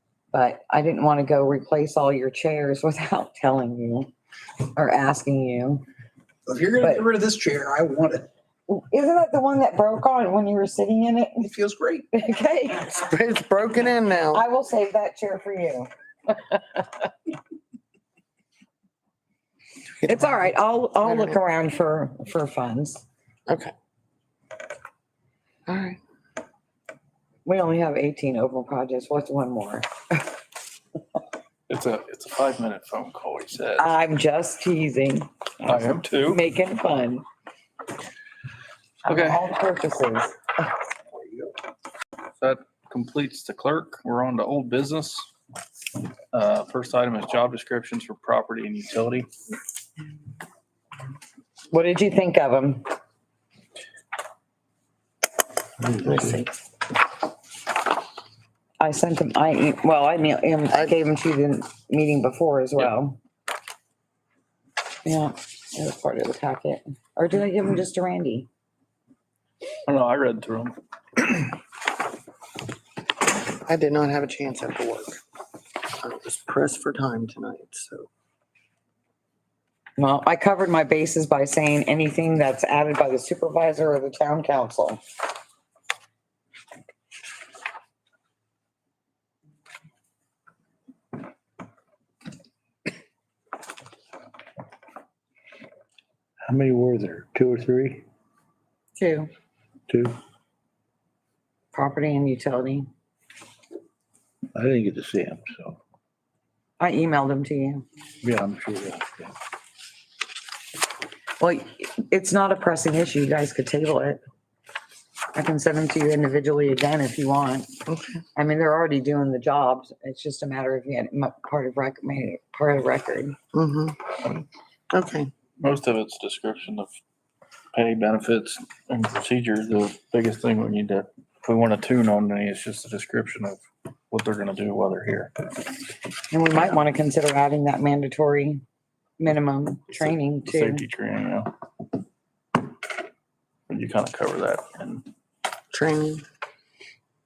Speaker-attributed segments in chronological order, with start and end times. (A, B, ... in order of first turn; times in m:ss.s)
0:00.3-0:04.1 A
0:04.6-0:05.8 A
0:06.4-0:08.3 B
0:08.7-0:11.5 A
0:11.4-0:12.1 B
0:12.1-0:12.9 A
0:12.8-0:14.4 C
0:14.3-0:17.1 A
0:20.0-0:20.5 C
0:20.0-0:23.0 A
0:21.0-0:21.4 C
0:23.5-0:23.7 C
0:25.7-0:26.0 C
0:27.4-0:30.3 A
0:31.7-0:33.8 D
0:33.8-0:35.3 A
0:35.6-0:36.4 D
0:36.2-0:37.2 A
0:39.0-0:40.7 A
0:39.0-0:39.4 D
0:42.4-0:45.2 D
0:46.3-0:49.3 D
0:51.7-0:52.9 A
0:56.0-0:56.5 C
0:58.8-1:03.2 A
1:05.0-1:08.5 A
1:09.9-1:11.5 D
1:13.5-1:15.2 C
1:16.0-1:18.1 C
1:20.0-1:25.0 A
1:36.4-1:38.0 E
1:39.0-1:39.3 A
1:39.9-1:40.2 E
1:41.7-1:42.9 A
1:44.5-1:45.8 E
1:46.8-1:47.8 A
1:48.2-1:49.3 E
1:51.4-1:54.2 A
1:55.3-1:57.7 A
1:57.9-1:58.2 C
1:58.4-2:03.4 A
2:03.5-2:05.3 C
2:05.6-2:06.9 D
2:07.7-2:13.6 D
2:14.1-2:15.4 D
2:16.3-2:18.6 A
2:19.2-2:20.8 A
2:19.9-2:21.5 D
2:23.7-2:25.1 D
2:25.7-2:26.2 C